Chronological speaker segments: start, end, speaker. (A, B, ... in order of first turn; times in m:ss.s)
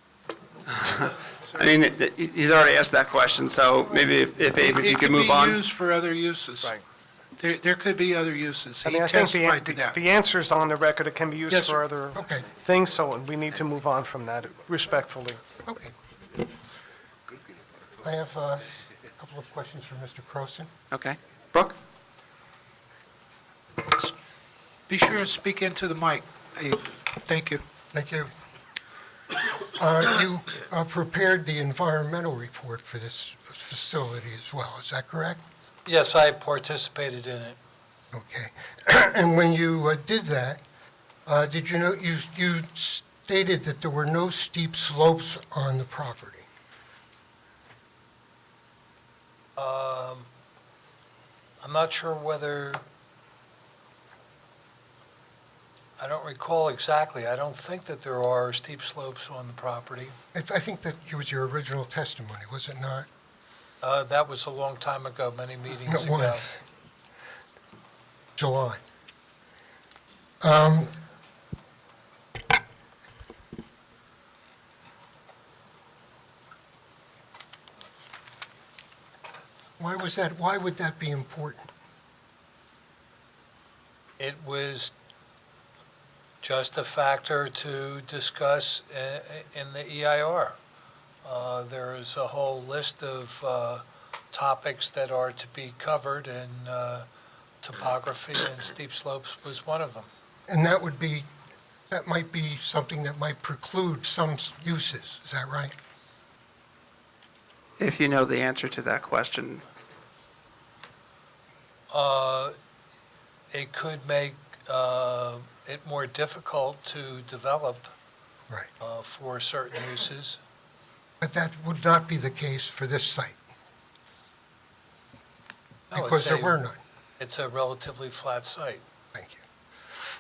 0:00.7-0:05.6 A
0:01.4-0:01.7 B
0:04.6-0:06.7 B
0:07.4-0:10.0 B
0:08.8-0:15.4 C
0:11.5-0:11.8 B
0:12.1-0:12.5 D
0:15.6-0:16.0 D
0:18.0-0:20.7 D
0:20.9-0:21.8 A
0:23.9-0:24.2 B
0:24.9-0:27.6 B
0:27.9-0:28.3 D
0:29.7-0:35.4 D
0:35.9-0:37.6 E
0:38.1-0:40.6 D
0:41.3-0:46.5 D
0:49.6-0:50.3 E
0:51.6-0:52.8 E
0:56.0-1:00.2 E
1:00.3-1:03.1 D
1:03.8-1:06.5 E
1:05.9-1:06.6 D
1:08.4-1:08.8 D
1:10.4-1:10.9 D
1:19.8-1:21.7 D
1:24.2-1:24.9 E
1:26.4-1:30.6 E
1:31.2-1:37.1 E
1:37.6-1:40.1 E
1:40.5-1:41.3 D
1:41.9-1:45.7 D
1:47.8-1:49.6 A
1:51.9-1:52.6 E
1:53.5-1:57.9 E
1:58.8-2:00.4 E
2:01.2-2:03.4 D
2:05.9-2:06.8 D
2:05.9-2:06.6 E
2:07.2-2:08.8 E
2:09.1-2:09.4 D